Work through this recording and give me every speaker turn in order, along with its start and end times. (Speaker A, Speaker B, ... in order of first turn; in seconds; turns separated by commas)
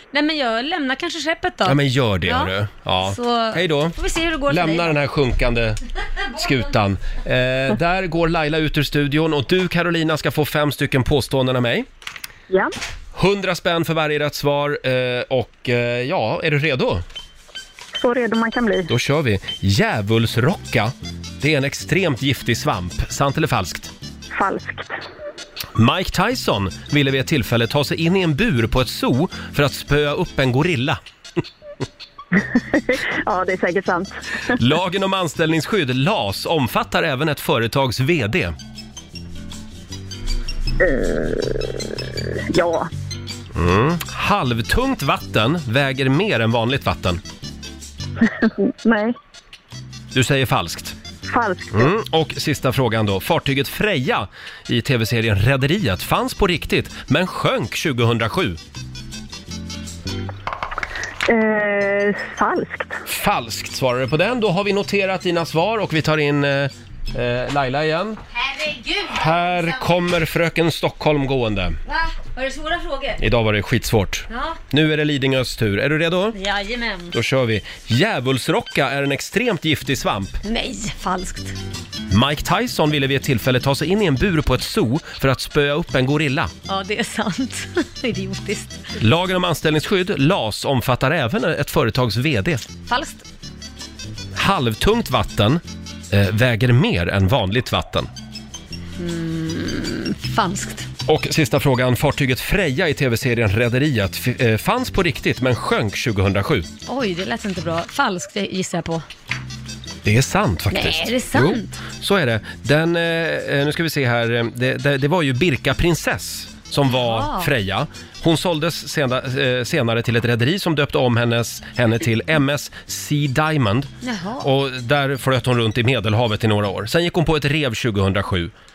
Speaker A: 0.1-2.5, Speaker B: 1.7-4.0, Speaker A: 3.0-5.0, Speaker B: 4.5-5.8, Speaker B: 6.3-11.9, Speaker B: 13.2-17.0, Speaker C: 18.0-18.9, Speaker B: 18.9-23.9, Speaker C: 24.3-24.9, Speaker B: 25.8-31.0, Speaker C: 32.4-34.2, Speaker B: 34.6-38.5, Speaker C: 40.8-42.9, Speaker B: 43.5-47.2, Speaker C: 48.2-49.2, Speaker B: 50.1-51.0, Speaker C: 51.3-51.9, Speaker B: 51.7-58.6, Speaker C: 61.3-63.0, Speaker B: 63.1-68.2, Speaker A: 68.4-69.8, Speaker B: 69.1-71.8, Speaker A: 71.9-73.2, Speaker B: 73.2-76.4, Speaker A: 74.3-74.6, Speaker A: 76.3-77.1, Speaker B: 77.1-80.4, Speaker A: 80.4-81.6, Speaker B: 82.1-86.5, Speaker A: 86.7-89.0, Speaker B: 89.0-92.7, Speaker A: 92.9-93.2, Speaker B: 94.3-98.1, Speaker A: 99.0-100.9, Speaker B: 101.1-106.7, Speaker A: 106.9-109.0, Speaker B: 110.0-123.9, Speaker A: 110.7-111.7, Speaker A: 116.9-117.5, Speaker A: 124.0-124.5, Speaker B: 124.4-128.5